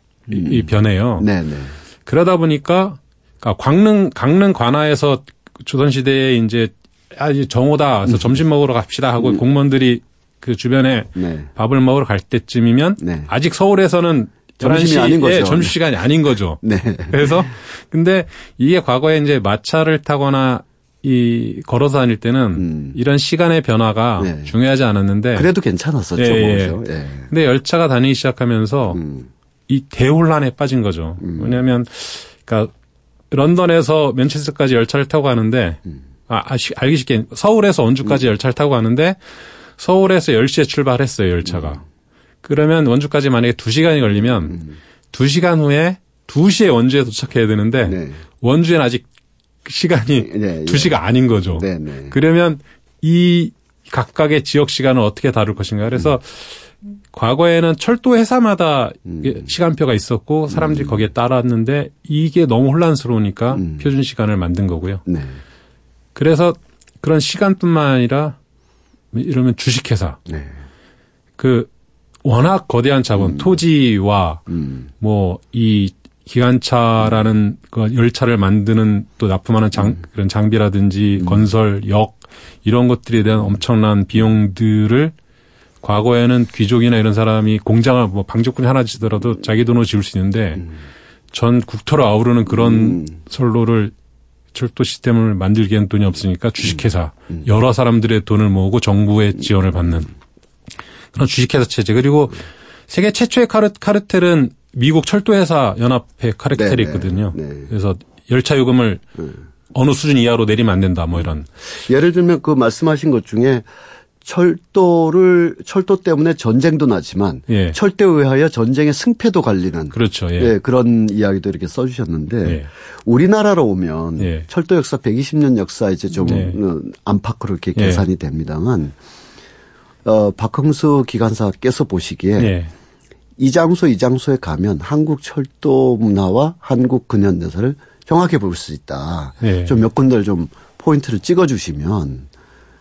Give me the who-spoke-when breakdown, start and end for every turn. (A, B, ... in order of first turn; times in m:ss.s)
0:00.3-0:01.3 A
0:00.3-0:01.7 B
0:02.0-0:25.5 A
0:08.1-0:08.4 B
0:11.1-0:11.5 B
0:13.0-0:13.3 B
0:14.6-0:15.8 B
0:16.6-0:17.4 B
0:22.6-0:23.0 B
0:24.2-0:24.5 B
0:25.3-0:27.3 B
0:26.1-0:29.0 A
0:28.9-0:29.3 B
0:29.7-0:32.7 A
0:31.2-0:31.6 B
0:33.3-0:39.2 A
0:39.8-0:41.8 A
0:41.5-0:41.8 B
0:42.4-0:49.1 A
0:44.5-0:44.7 B
0:47.9-0:48.2 B
0:49.6-1:05.0 A
0:50.2-0:51.0 B
0:51.5-0:52.1 B
0:59.1-0:59.5 B
1:00.5-1:01.0 B
1:03.5-1:03.9 B
1:05.0-1:05.4 B
1:06.1-1:08.4 A
1:09.1-1:10.2 A
1:10.3-1:10.5 B
1:11.4-1:11.7 A
1:12.2-1:14.4 A
1:13.2-1:13.5 B
1:14.5-1:14.8 B
1:15.0-1:25.1 A
1:21.2-1:21.5 B
1:25.8-1:30.7 A
1:31.3-1:33.9 A
1:32.5-1:33.2 B
1:34.5-1:40.1 A
1:36.6-1:37.4 B
1:41.1-1:49.0 A
1:46.6-1:47.7 B
1:49.7-1:51.5 A
1:51.8-1:53.7 B
1:54.2-2:09.0 B
1:57.5-1:57.8 A
1:59.9-2:00.5 A
2:04.2-2:04.4 A
2:06.2-2:06.6 A
2:07.8-2:08.0 A
2:10.0-2:12.5 B
2:12.4-2:12.7 A
2:13.4-2:22.3 B
2:19.4-2:19.8 A